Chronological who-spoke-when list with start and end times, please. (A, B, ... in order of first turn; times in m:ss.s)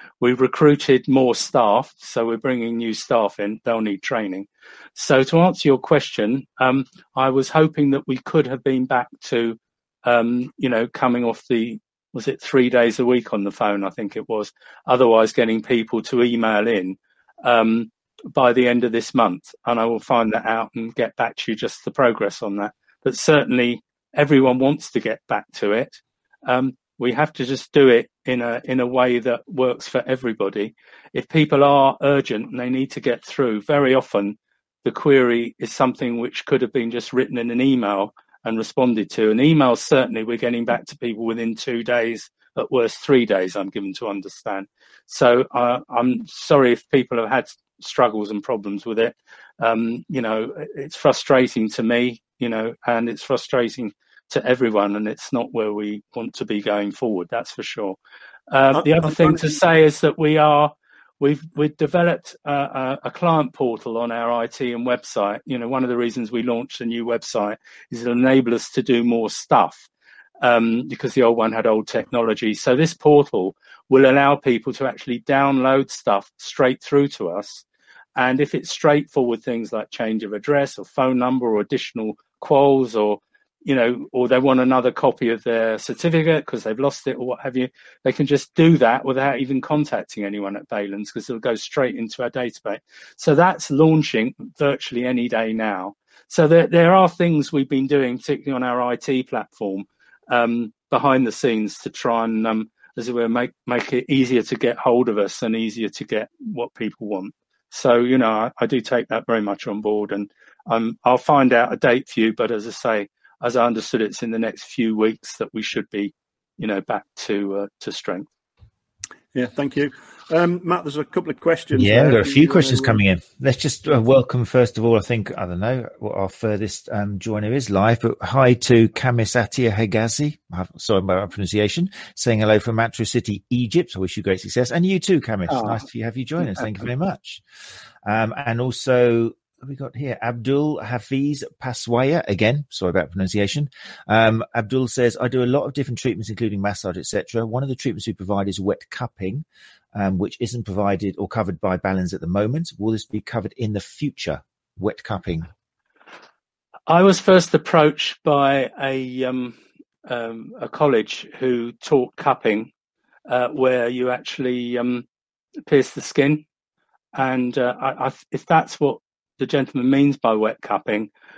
0:00.2-0:58.0 A
0:58.5-1:09.9 A
0:58.7-0:59.6 B
1:10.4-1:17.6 A
1:18.2-1:58.3 A
1:59.3-2:03.0 B
2:01.7-2:17.4 C
2:15.5-2:15.8 A
2:16.4-2:16.8 A
2:18.0-2:35.5 C
2:36.9-2:42.7 A
2:43.3-2:45.0 A
2:45.7-2:46.4 A
2:47.1-2:51.1 A